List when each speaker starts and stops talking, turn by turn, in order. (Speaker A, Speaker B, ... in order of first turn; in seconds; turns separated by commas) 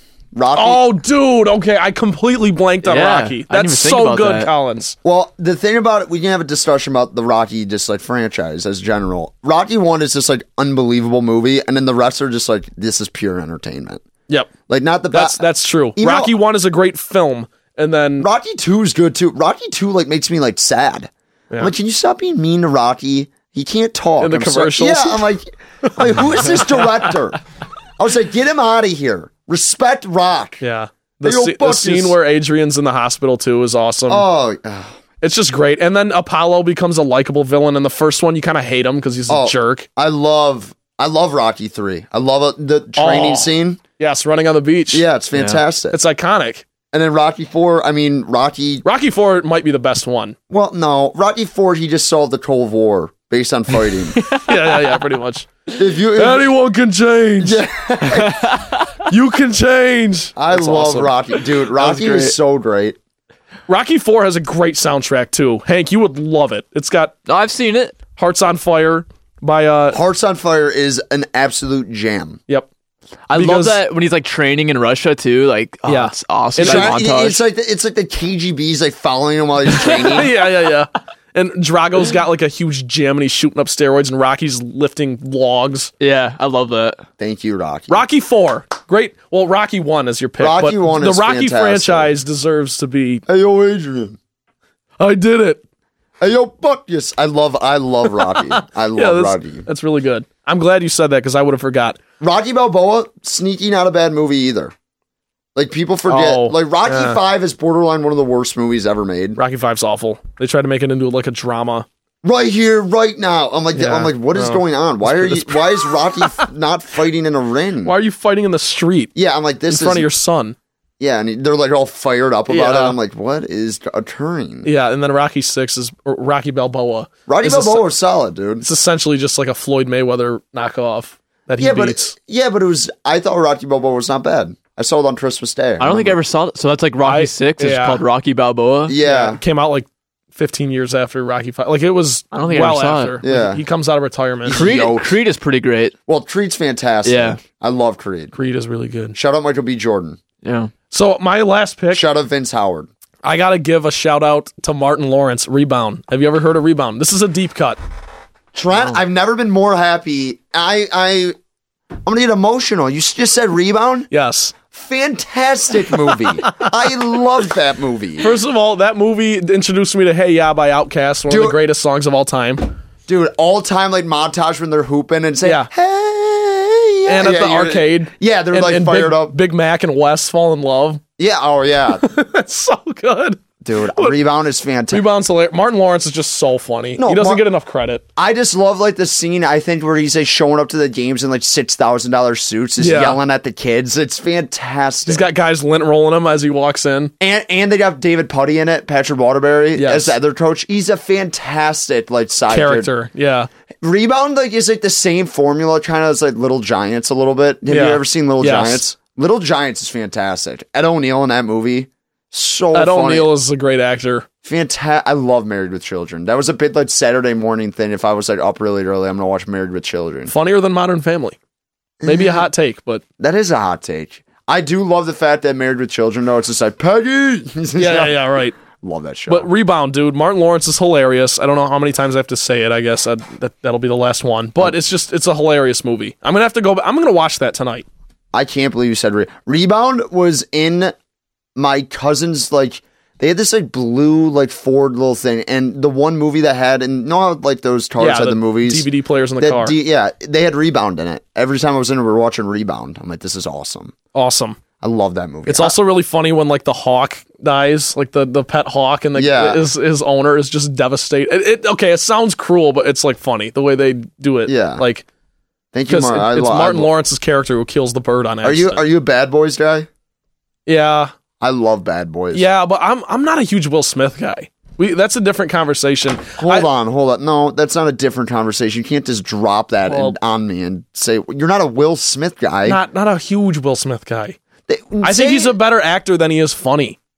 Speaker A: 0.3-0.8, Speaker B: 0.6-5.0, Speaker C: 2.8-4.5, Speaker A: 5.0-14.0, Speaker A: 14.7-15.4, Speaker B: 15.1-18.3, Speaker A: 16.0-16.4, Speaker A: 18.2-27.4, Speaker B: 24.2-25.2, Speaker A: 28.0-30.6, Speaker B: 30.6-34.3, Speaker A: 31.2-32.2, Speaker A: 34.1-35.0, Speaker B: 35.2-39.9, Speaker A: 39.3-43.8, Speaker B: 43.0-45.0, Speaker A: 44.9-46.0, Speaker C: 45.4-45.6, Speaker B: 45.9-46.7, Speaker A: 46.9-48.8, Speaker B: 48.8-50.4, Speaker A: 50.5-54.2, Speaker B: 54.3-55.5, Speaker A: 55.7-56.5, Speaker B: 56.1-57.6, Speaker A: 57.4-58.4, Speaker C: 58.1-59.0, Speaker B: 59.1-61.1, Speaker A: 60.4-63.0, Speaker C: 61.8-62.4, Speaker B: 63.7-67.2, Speaker C: 67.3-68.0, Speaker B: 68.2-70.0, Speaker A: 69.9-72.4, Speaker C: 73.3-77.4, Speaker B: 73.3-73.8, Speaker B: 75.9-77.0, Speaker A: 76.6-80.3, Speaker B: 80.1-85.9, Speaker C: 86.0-87.0, Speaker A: 87.2-88.0, Speaker B: 87.9-93.2, Speaker A: 90.4-92.1, Speaker A: 93.3-94.2, Speaker B: 95.0-95.6, Speaker A: 96.2-99.7, Speaker B: 98.3-102.0, Speaker A: 102.2-104.7, Speaker A: 105.5-109.4, Speaker B: 106.1-107.2, Speaker B: 109.4-111.9, Speaker A: 112.2-117.9, Speaker B: 113.7-116.5, Speaker B: 117.8-119.1, Speaker A: 119.2-120.1, Speaker B: 119.7-120.6, Speaker A: 121.0-124.7, Speaker B: 122.5-123.0, Speaker B: 124.6-127.9, Speaker A: 127.3-128.7, Speaker B: 128.6-132.1, Speaker A: 131.6-136.2, Speaker C: 135.8-138.9, Speaker B: 137.0-138.0, Speaker A: 138.9-139.4, Speaker B: 139.0-144.6, Speaker C: 142.3-143.2, Speaker A: 143.2-143.6, Speaker A: 144.4-145.2, Speaker C: 144.5-145.9, Speaker A: 146.1-148.3, Speaker C: 147.1-147.4, Speaker B: 148.3-149.2, Speaker A: 149.1-150.2, Speaker C: 150.4-150.7, Speaker B: 150.9-152.1, Speaker A: 151.9-152.9, Speaker B: 153.2-157.8, Speaker A: 158.5-161.4, Speaker A: 162.1-164.1, Speaker B: 164.1-164.5, Speaker A: 164.7-168.3, Speaker B: 166.2-166.7, Speaker B: 168.2-172.7, Speaker A: 171.3-171.6, Speaker A: 173.1-179.4, Speaker B: 175.4-175.7, Speaker B: 177.1-181.0, Speaker A: 181.2-182.0, Speaker B: 182.0-183.4, Speaker A: 183.6-185.1, Speaker B: 184.9-188.0, Speaker A: 187.0-187.5, Speaker A: 188.2-195.3, Speaker B: 192.8-193.2, Speaker B: 195.1-197.1, Speaker A: 197.2-202.9, Speaker B: 199.8-200.2, Speaker B: 202.5-203.5, Speaker A: 203.8-213.3, Speaker B: 207.7-208.8, Speaker B: 212.7-214.3, Speaker A: 214.4-220.3, Speaker B: 220.3-221.4, Speaker A: 222.0-222.5, Speaker B: 222.0-223.0, Speaker A: 223.2-229.5, Speaker B: 227.8-228.6, Speaker B: 229.3-237.9, Speaker A: 238.3-240.9, Speaker A: 241.6-248.9, Speaker B: 248.0-249.8, Speaker A: 249.4-253.9, Speaker B: 254.1-254.6, Speaker A: 254.8-255.8, Speaker B: 255.5-265.1, Speaker A: 259.1-259.6, Speaker A: 264.5-264.8, Speaker A: 265.7-266.9, Speaker B: 265.9-268.8, Speaker A: 268.4-269.9, Speaker B: 270.7-271.1, Speaker A: 271.4-272.5, Speaker B: 272.3-276.7, Speaker A: 276.4-282.8, Speaker B: 279.9-280.2, Speaker B: 282.6-284.4, Speaker A: 284.7-285.6, Speaker B: 285.0-287.0